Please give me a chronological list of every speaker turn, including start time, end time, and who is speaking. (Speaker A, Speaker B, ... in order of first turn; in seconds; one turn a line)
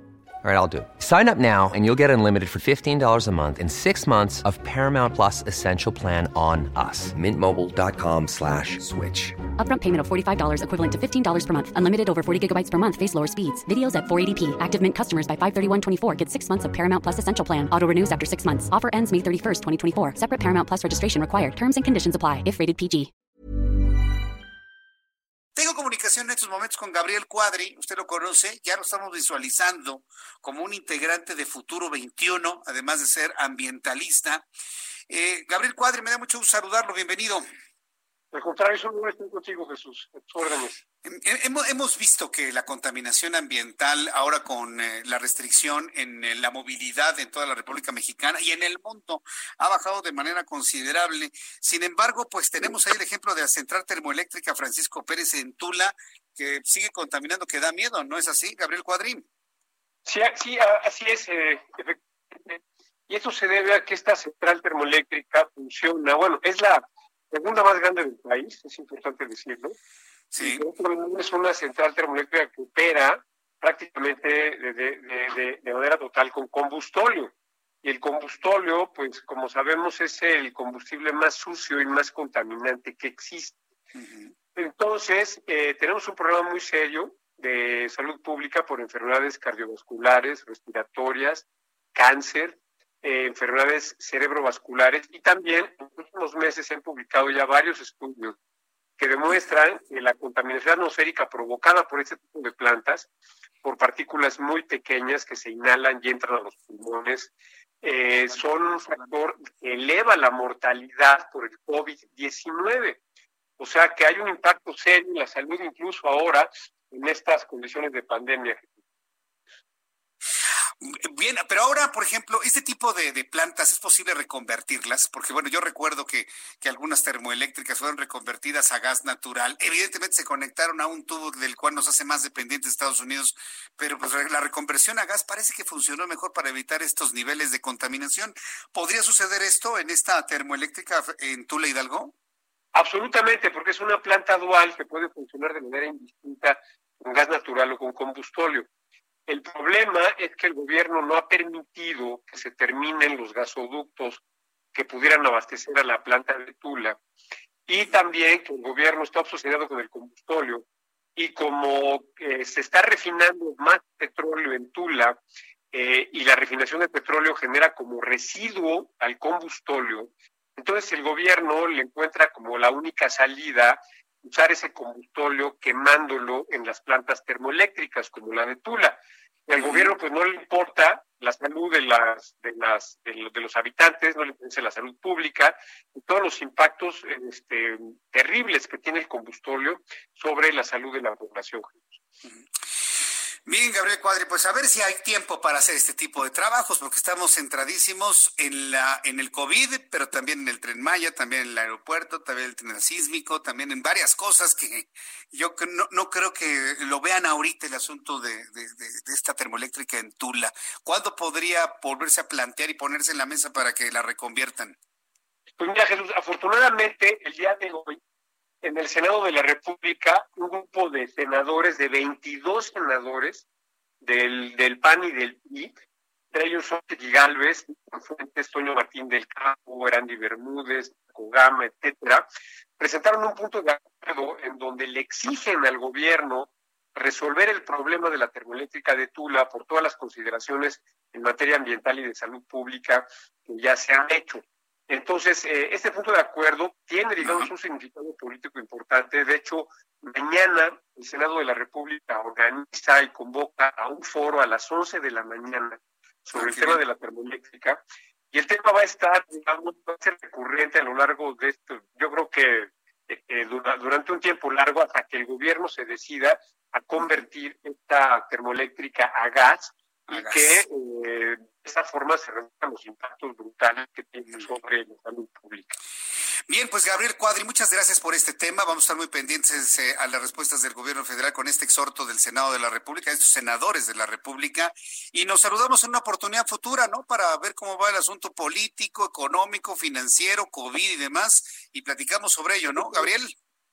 Speaker A: 0.4-9.3
Speaker B: 9.6-23.1
Speaker C: 25.6-34.5
Speaker C: 35.1-37.4
Speaker D: 38.3-40.8
Speaker C: 41.0-59.2
Speaker D: 60.0-69.8
Speaker C: 70.3-70.7
Speaker D: 70.4-83.6
Speaker C: 84.0-84.3
Speaker D: 84.5-98.4
Speaker D: 99.0-103.1
Speaker D: 103.6-113.0
Speaker C: 108.1-109.1
Speaker D: 113.6-118.8
Speaker C: 120.8-142.1
Speaker D: 142.7-148.7
Speaker D: 149.3-154.2
Speaker D: 154.7-157.0
Speaker D: 157.7-160.7
Speaker D: 161.2-165.2
Speaker D: 165.7-192.0
Speaker C: 179.6-179.9
Speaker C: 193.5-214.8
Speaker D: 215.6-218.0
Speaker D: 218.6-223.5
Speaker D: 224.0-225.7
Speaker D: 226.3-232.3
Speaker D: 232.8-275.8
Speaker C: 247.2-247.5
Speaker C: 256.4-256.8
Speaker C: 270.1-270.6
Speaker C: 276.5-293.3
Speaker D: 292.7-293.1